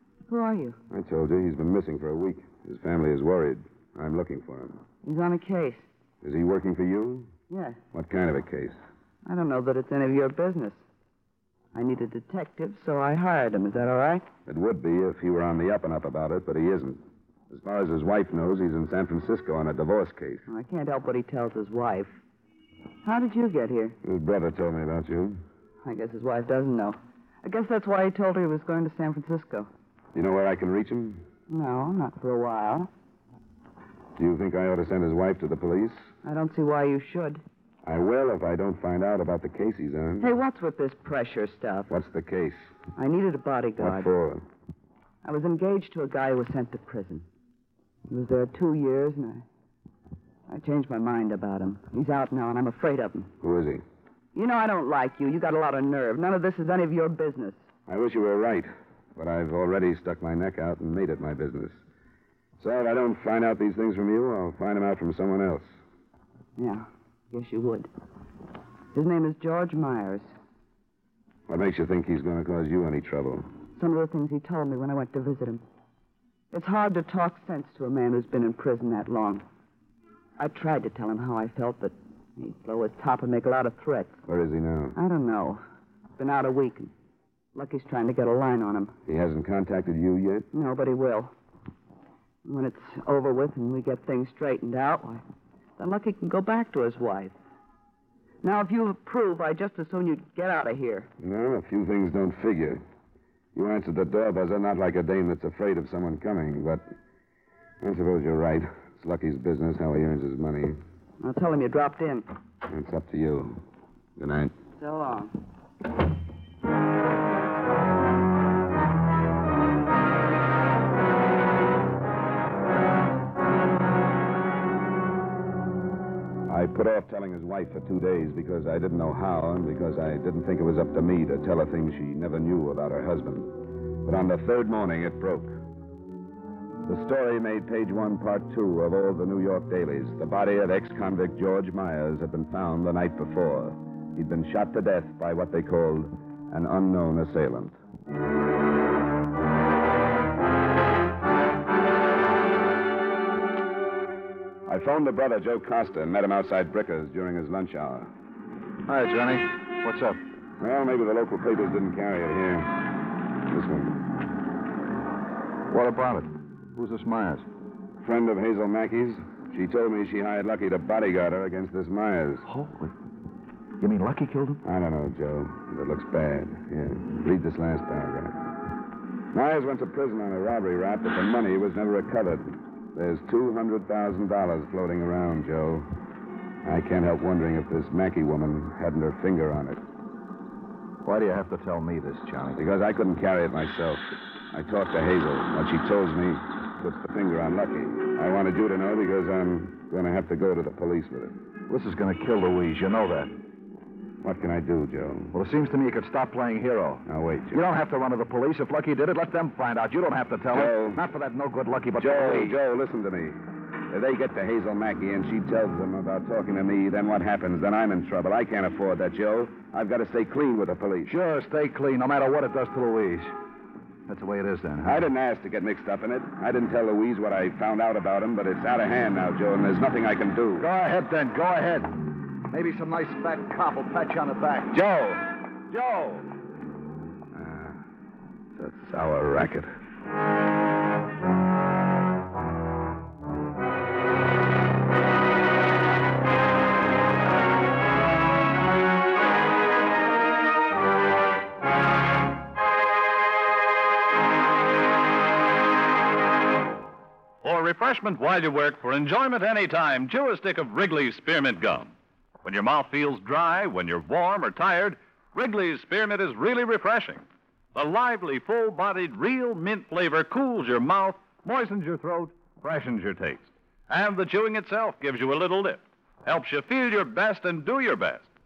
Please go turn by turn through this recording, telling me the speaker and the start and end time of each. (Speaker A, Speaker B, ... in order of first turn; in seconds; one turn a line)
Speaker A: 0.3-0.8
Speaker B: 0.9-4.8
Speaker A: 5.0-5.9
Speaker B: 6.2-7.3
Speaker A: 7.5-7.8
Speaker B: 7.9-8.8
Speaker A: 9.2-10.8
Speaker A: 11.7-14.2
Speaker B: 14.5-20.4
Speaker A: 20.5-22.2
Speaker A: 23.1-24.0
Speaker B: 24.0-25.4
Speaker A: 25.8-29.7
Speaker B: 30.1-31.2
Speaker A: 31.5-32.9
Speaker B: 34.2-36.0
Speaker A: 36.2-37.4
Speaker B: 37.9-40.3
Speaker A: 40.2-41.9
Speaker B: 41.9-42.7
Speaker A: 43.0-44.1
Speaker B: 43.8-44.5
Speaker A: 45.2-47.3
Speaker A: 48.1-49.5
Speaker A: 50.5-53.3
Speaker B: 53.4-53.8
Speaker A: 54.3-57.6
Speaker B: 57.9-61.8
Speaker B: 62.6-65.7
Speaker A: 66.6-67.9
Speaker A: 68.9-70.3
Speaker B: 71.5-73.5
Speaker A: 73.8-75.6
Speaker A: 76.5-79.4
Speaker A: 80.4-84.2
Speaker B: 84.3-85.0
Speaker A: 85.0-85.6
Speaker A: 86.2-86.9
Speaker A: 87.5-88.9
Speaker B: 89.1-90.5
Speaker A: 90.5-91.3
Speaker A: 92.5-95.2
Speaker A: 95.8-97.3
Speaker A: 98.4-101.1
Speaker B: 101.2-102.8
Speaker B: 103.5-106.9
Speaker B: 107.8-110.8
Speaker A: 111.2-112.3
Speaker B: 112.7-113.6
Speaker B: 114.2-114.5
Speaker A: 114.8-115.3
Speaker B: 126.5-135.6
Speaker B: 136.9-147.8
Speaker B: 154.7-158.1
Speaker C: 158.9-160.2
Speaker B: 160.6-162.7
Speaker B: 163.5-164.0
Speaker C: 165.7-167.5
Speaker B: 168.0-172.5
Speaker C: 172.5-172.9
Speaker C: 173.8-174.6
Speaker B: 174.6-178.4
Speaker B: 179.3-185.9
Speaker B: 186.6-189.8
Speaker C: 191.0-192.6
Speaker B: 192.6-201.3
Speaker C: 201.7-203.3
Speaker B: 204.2-205.3
Speaker C: 205.3-212.6
Speaker B: 207.1-207.6
Speaker B: 210.5-211.0
Speaker B: 212.0-221.2
Speaker C: 221.1-223.3
Speaker C: 224.1-225.1
Speaker B: 224.8-230.7
Speaker C: 230.6-231.9
Speaker C: 232.5-234.8
Speaker B: 234.7-236.2
Speaker B: 237.3-237.8
Speaker B: 238.6-239.7
Speaker D: 257.4-278.3